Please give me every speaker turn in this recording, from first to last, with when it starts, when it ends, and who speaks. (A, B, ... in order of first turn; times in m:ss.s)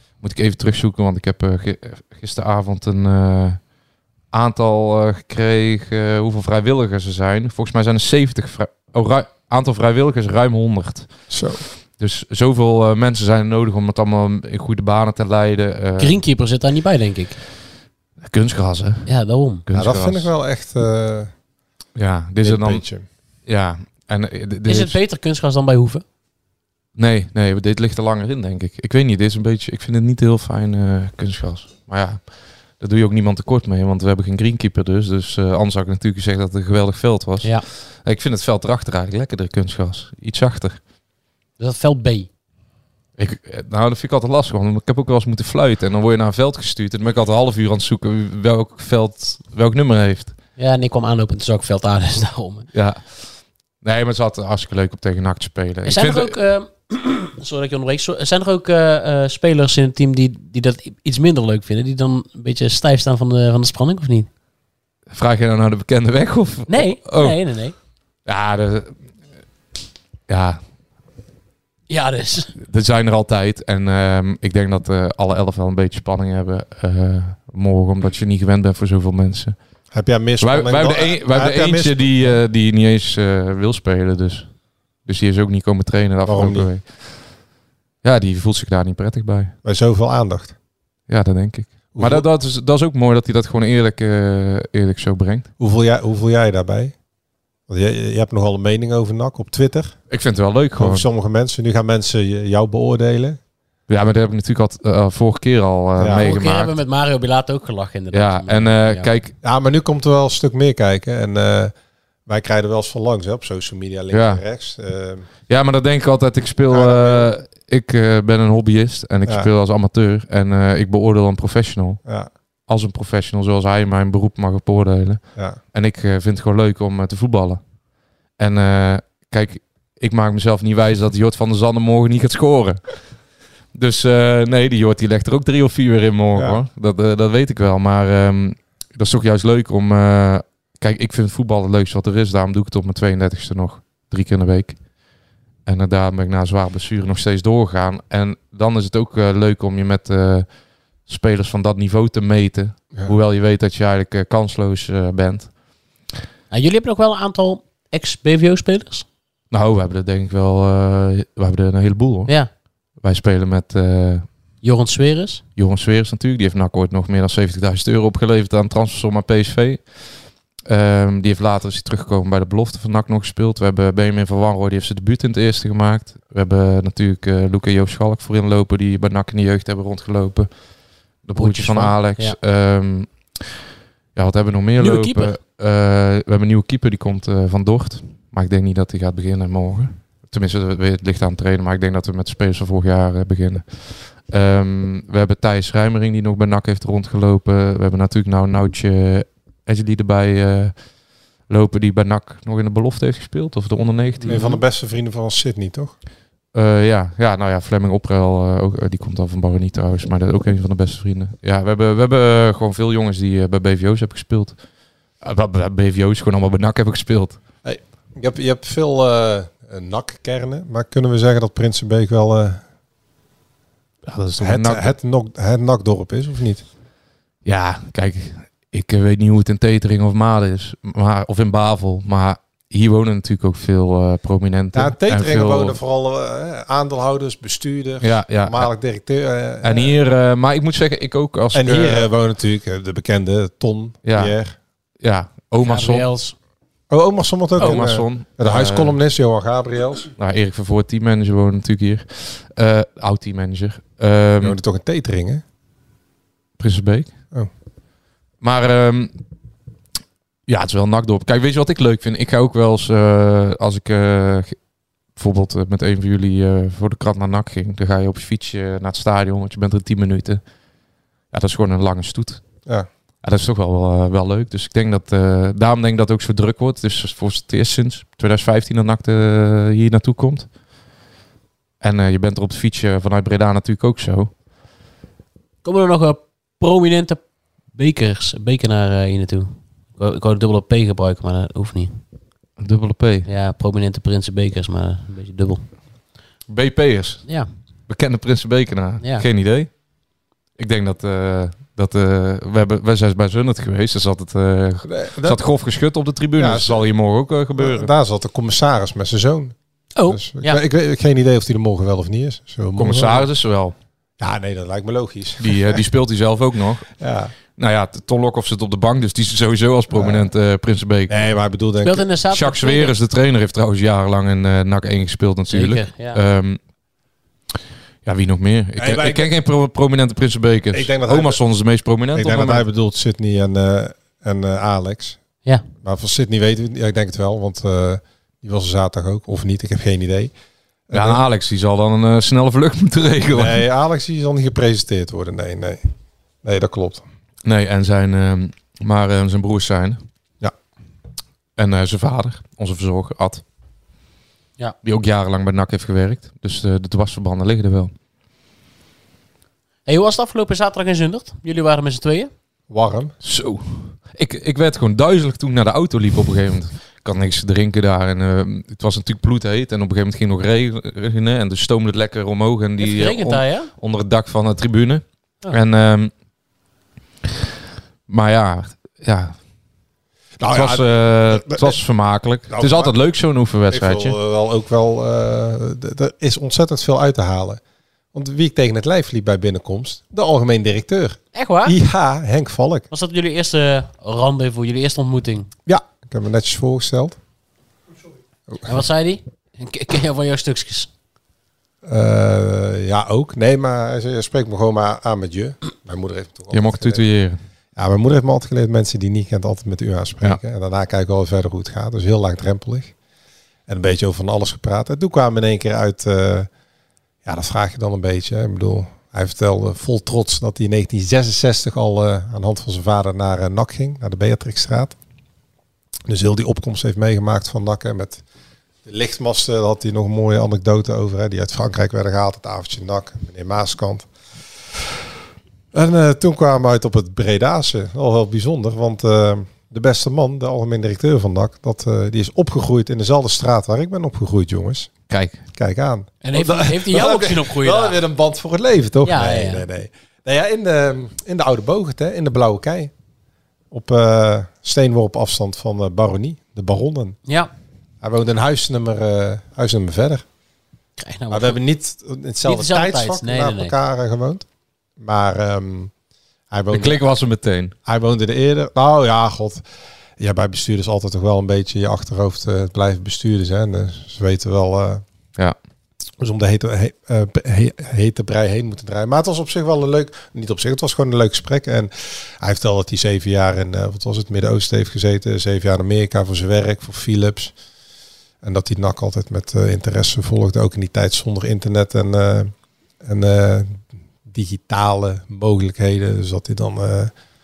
0:00.2-0:03.6 A
0:04.3-0:11.1 A
0:11.3-0:11.6 B
0:12.0-0:16.2 A
0:16.0-0:17.4 C
0:18.2-0:19.1 A
0:19.0-0:19.6 C
0:19.6-0:20.3 A
0:19.7-0:21.3 B
0:22.0-0:22.8 A
0:22.4-0:23.0 B
0:23.4-0:25.0 A
0:24.6-0:26.0 C
0:27.0-0:32.2 A
0:32.8-0:40.8 A
0:41.6-0:42.3 C
0:43.2-0:50.4 A
0:50.6-0:52.7 C
0:52.7-0:53.1 A
0:53.8-0:56.4 A
0:55.8-1:04.3 C
1:05.1-1:07.4 A
1:06.7-1:07.7 C
1:08.2-1:08.9 A
1:10.3-1:10.6 A
1:11.9-1:12.5 C
1:12.6-1:19.6 A
1:19.9-1:22.4 B
1:20.4-1:24.5 A
1:25.0-1:27.0 A
1:26.2-1:26.7 B
1:28.0-1:29.5 A
1:29.6-1:30.5 B
1:31.1-1:35.5 A
1:31.9-1:32.2 B
1:35.6-1:36.9 B
1:37.7-1:40.0 B
1:40.1-1:41.0 A
1:40.8-1:43.4 B
1:43.9-1:46.8 A
1:46.0-1:46.3 B
1:46.2-1:49.1 C
1:48.1-1:49.3 A
1:49.4-1:51.7 B
1:52.3-1:55.3 B
1:54.1-1:54.4 A
1:55.5-2:02.0 A
1:56.7-1:57.3 B
2:02.7-2:05.2 A
2:05.7-2:07.6 A
2:08.4-2:12.9 A
2:13.7-2:24.8 A
2:16.3-2:16.6 B
2:25.6-2:30.4 A
2:31.1-2:35.5 A
2:36.5-2:39.0 C
2:39.5-2:42.3 A
2:43.0-2:44.2 A
2:44.6-2:45.4 C
2:45.6-2:49.8 A
2:50.6-3:00.5 A
3:01.2-3:03.4 A
3:01.4-3:02.4 C
3:04.1-3:20.7 A
3:04.8-3:05.4 C
3:21.5-3:24.5 A
3:24.2-3:24.6 C
3:24.2-3:25.9 B
3:26.5-3:34.6 A
3:35.2-3:37.4 A
3:37.6-3:42.6 B
3:44.0-3:44.9 A
3:44.4-3:46.6 B
3:47.4-3:55.8 A
3:54.7-4:00.0 B
3:58.0-3:58.7 A
3:59.6-4:02.1 A
4:01.5-4:04.5 B
4:04.0-4:04.3 A
4:05.0-4:06.1 A
4:05.6-4:06.3 C
4:06.9-4:10.1 B
4:07.6-4:09.0 A
4:10.2-4:14.6 A
4:14.4-4:15.4 B
4:16.6-4:17.1 A
4:18.4-4:19.1 A
4:20.5-4:24.6 A
4:25.2-4:30.4 A
4:31.3-4:32.4 A
4:33.2-4:40.5 A
4:41.8-4:44.3 A
4:45.6-4:47.2 C
4:47.7-4:52.0 C
4:52.6-4:53.3 A
4:53.2-4:55.6 C
4:56.5-4:57.2 A
4:57.9-4:59.7 A
5:00.6-5:07.9 A
5:04.8-5:05.4 B
5:06.4-5:06.9 B
5:07.6-5:09.5 B
5:10.0-5:10.6 C
5:10.1-5:13.3 B
5:12.8-5:13.7 A
5:14.2-5:15.8 B
5:15.4-5:16.9 A
5:17.0-5:17.3 B
5:17.6-5:21.2 A
5:19.9-5:20.3 B
5:21.1-5:22.0 B
5:21.8-5:22.9 C
5:22.3-5:26.6 A
5:25.5-5:26.2 C
5:28.0-5:32.6 A
5:28.8-5:29.3 B
5:30.7-5:31.4 B
5:32.1-5:35.2 B
5:35.8-5:40.3 B
5:40.9-5:41.2 B
5:40.9-5:43.6 A
5:43.3-5:45.8 B
5:46.4-5:47.0 B
5:47.4-5:50.0 A
5:51.6-5:53.4 A
5:54.8-5:57.9 A
5:59.8-6:02.3 C
6:02.7-6:03.1 B
6:03.2-6:16.1 A
6:12.8-6:13.7 C
6:18.1-6:19.3 A
6:20.4-6:21.8 B
6:20.5-6:24.2 A
6:22.5-6:22.9 B
6:23.7-6:27.6 B
6:28.1-6:32.9 B
6:31.3-6:31.8 C
6:32.9-6:35.5 C
6:35.6-6:37.2 B
6:38.6-6:40.9 C
6:41.8-6:47.0 B
6:46.5-6:47.4 A
6:47.8-6:52.9 B
6:53.7-6:56.5 B
6:57.2-7:05.0 B
7:06.1-7:08.2 B
7:08.8-7:14.1 B
7:15.7-7:24.9 B
7:25.1-7:25.4 A
7:25.5-7:32.9 B
7:26.2-7:28.0 C
7:29.0-7:29.6 C
7:33.7-7:37.2 B
7:38.0-7:40.2 B
7:41.0-7:41.6 C
7:41.3-7:44.4 B
7:42.4-7:43.7 C
7:45.0-7:45.9 B
7:46.5-7:47.0 B
7:46.7-7:47.7 A
7:47.8-7:49.6 B
7:50.2-7:55.0 B
7:56.2-8:07.5 B
8:08.4-8:17.1 B